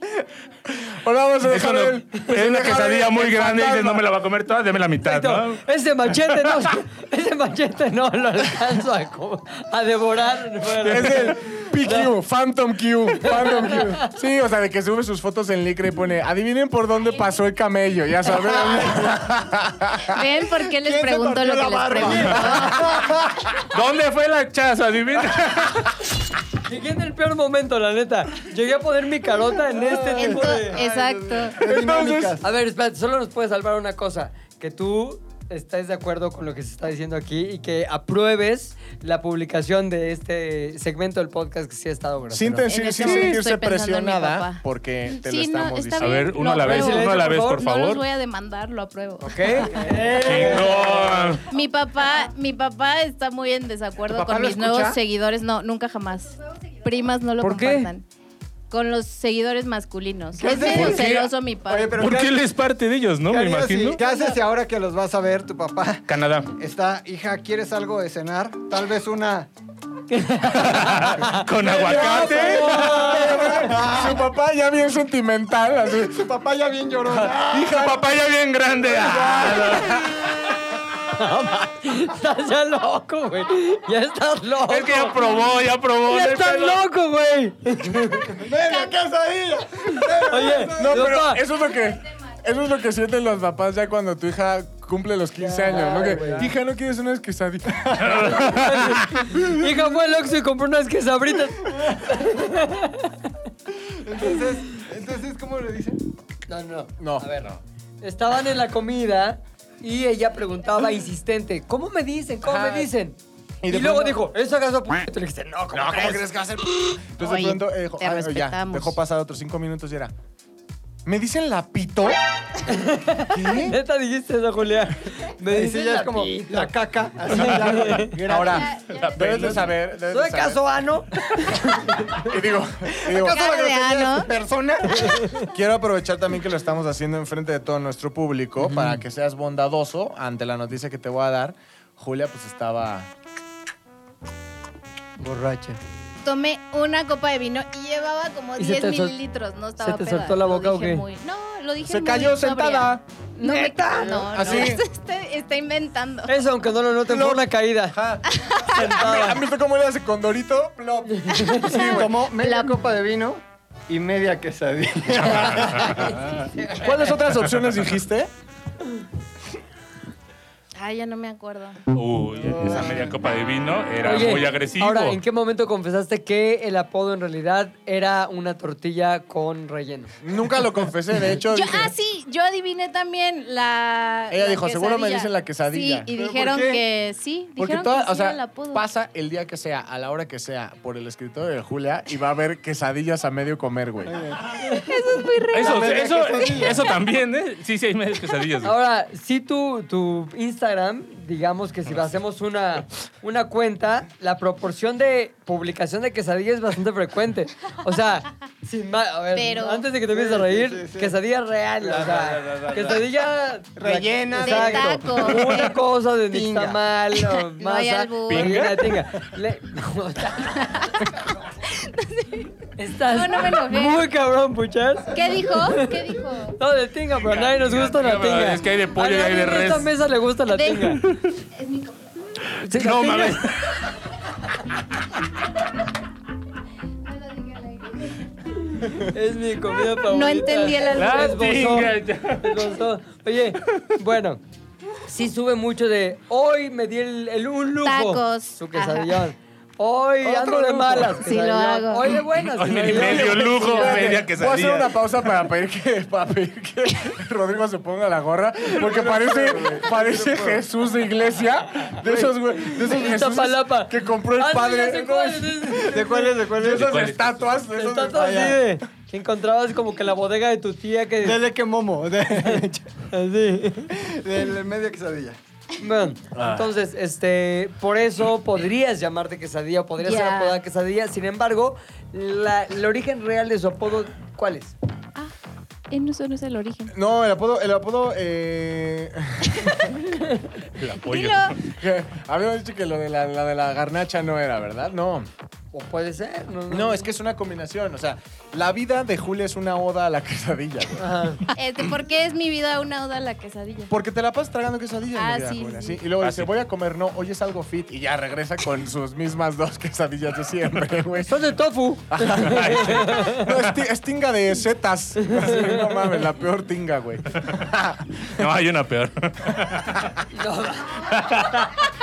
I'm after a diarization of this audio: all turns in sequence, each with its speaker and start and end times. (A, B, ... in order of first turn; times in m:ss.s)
0:00.6-0:04.0 A
0:01.5-0:05.6 B
0:05.0-0:12.1 C
0:10.8-0:20.2 A
0:13.4-0:13.8 C
0:20.1-0:22.9 D
0:20.7-0:23.4 E
0:23.7-0:26.0 B
0:26.6-0:30.8 C
0:29.8-0:32.5 E
0:30.1-0:31.6 D
0:31.5-0:32.4 A
0:32.4-0:43.3 C
0:42.3-0:46.3 A
0:42.6-0:49.9 D
0:46.0-0:48.0 B
0:46.6-0:47.6 C
0:49.2-0:51.3 C
0:49.8-0:51.2 E
0:50.2-0:51.4 B
0:51.5-0:58.0 D
0:54.1-0:55.0 E
0:57.4-0:57.9 C
0:58.7-1:02.0 D
1:00.4-1:01.1 E
1:00.6-1:01.3 B
1:01.6-1:02.5 E
1:02.0-1:04.0 B
1:03.3-1:06.0 E
1:06.1-1:06.5 B
1:06.6-1:09.5 E
1:10.1-1:11.5 C
1:10.5-1:13.3 B
1:11.6-1:14.2 E
1:11.6-1:16.3 A
1:12.1-1:13.7 C
1:16.0-1:18.0 E
1:17.3-1:20.2 B
1:18.8-1:20.1 E
1:21.1-1:25.4 C
1:24.7-1:26.8 B
1:26.1-1:28.4 C
1:28.3-1:31.2 E
1:30.2-1:31.4 C
1:30.8-1:38.5 A
1:35.4-1:36.5 C
1:35.7-1:36.5 E
1:38.0-1:39.1 B
1:38.4-1:43.2 C
1:43.8-1:46.0 E
1:46.5-1:56.2 C
1:47.0-1:47.3 A
1:52.4-1:52.9 A
1:53.6-1:54.2 A
1:55.7-2:00.1 A
1:57.2-1:59.0 D
2:01.0-2:02.2 A
2:02.7-2:06.7 C
2:03.3-2:03.8 A
2:05.5-2:08.8 E
2:07.3-2:08.2 C
2:08.2-2:10.6 A
2:08.5-2:09.3 D
2:08.9-2:09.7 B
2:10.1-2:12.2 C
2:12.2-2:13.6 A
2:12.9-2:15.4 E
2:13.3-2:14.3 D
2:15.5-2:23.1 A
2:18.6-2:19.0 C
2:25.2-2:25.8 C
2:26.2-2:36.4 D
2:28.6-2:29.2 C
2:29.8-2:31.1 C
2:31.8-2:33.0 A
2:33.4-2:34.6 C
2:34.2-2:34.8 A
2:36.3-2:38.0 C
2:37.1-2:38.2 E
2:38.3-2:38.8 D
2:38.7-2:39.4 C
2:38.9-2:42.2 A
2:41.1-2:41.7 C
2:41.7-2:46.1 E
2:42.4-2:42.8 D
2:45.3-2:46.5 B
2:46.5-2:47.0 C
2:46.8-2:48.3 A
2:50.8-2:51.8 D
2:51.9-2:55.2 B
2:54.0-3:00.2 C
3:00.2-3:01.9 A
3:01.5-3:08.8 D
3:04.3-3:06.1 A
3:06.1-3:06.8 E
3:07.6-3:14.2 A
3:14.1-3:14.6 E
3:14.7-3:16.0 D
3:15.5-3:18.8 B
3:15.6-3:16.8 E
3:18.6-3:41.0 C
3:29.3-3:29.9 D
3:30.1-3:31.2 E
3:31.8-3:32.9 E
3:32.6-3:33.0 B
3:33.8-3:35.6 E
3:34.4-3:35.7 D
3:36.3-3:36.8 E
3:37.4-3:38.8 D
3:38.3-3:38.7 A
3:40.6-3:42.5 D
3:42.8-3:46.0 C
3:43.0-3:44.1 D
3:45.1-3:46.6 D
3:46.6-3:51.0 C
3:47.2-3:49.9 B
3:50.5-3:51.0 D
3:51.6-3:52.0 D
3:52.6-3:53.4 C
3:52.7-3:53.8 B
3:57.2-3:58.0 D
3:58.8-4:04.4 C
4:00.1-4:01.5 D
4:00.9-4:02.7 B
4:05.1-4:13.9 C
4:07.8-4:09.2 D
4:10.2-4:11.1 E
4:11.2-4:12.2 D
4:12.6-4:14.9 B
4:12.8-4:28.6 A
4:18.7-4:20.6 E
4:22.1-4:26.3 C
4:25.9-4:27.1 E
4:26.6-4:27.5 B
4:27.8-4:31.4 C
4:28.1-4:28.6 E
4:31.2-4:32.9 E
4:33.1-4:33.9 C
4:33.9-4:35.4 E
4:35.8-4:44.8 C
4:40.0-4:40.6 D
4:45.9-4:46.9 D
4:46.9-4:49.9 A
4:50.8-4:51.6 B
4:51.0-4:51.6 D
4:51.7-4:55.3 A
4:55.7-4:57.1 C
4:56.7-5:01.1 A
5:01.0-5:01.4 C
5:01.6-5:03.9 D
5:03.9-5:11.5 A
5:05.2-5:06.0 D
5:06.2-5:06.5 B
5:11.2-5:13.4 C
5:12.1-5:18.2 A
5:12.4-5:13.6 B
5:15.2-5:15.8 C
5:18.2-5:20.2 B
5:20.3-5:21.1 C
5:21.1-5:21.7 B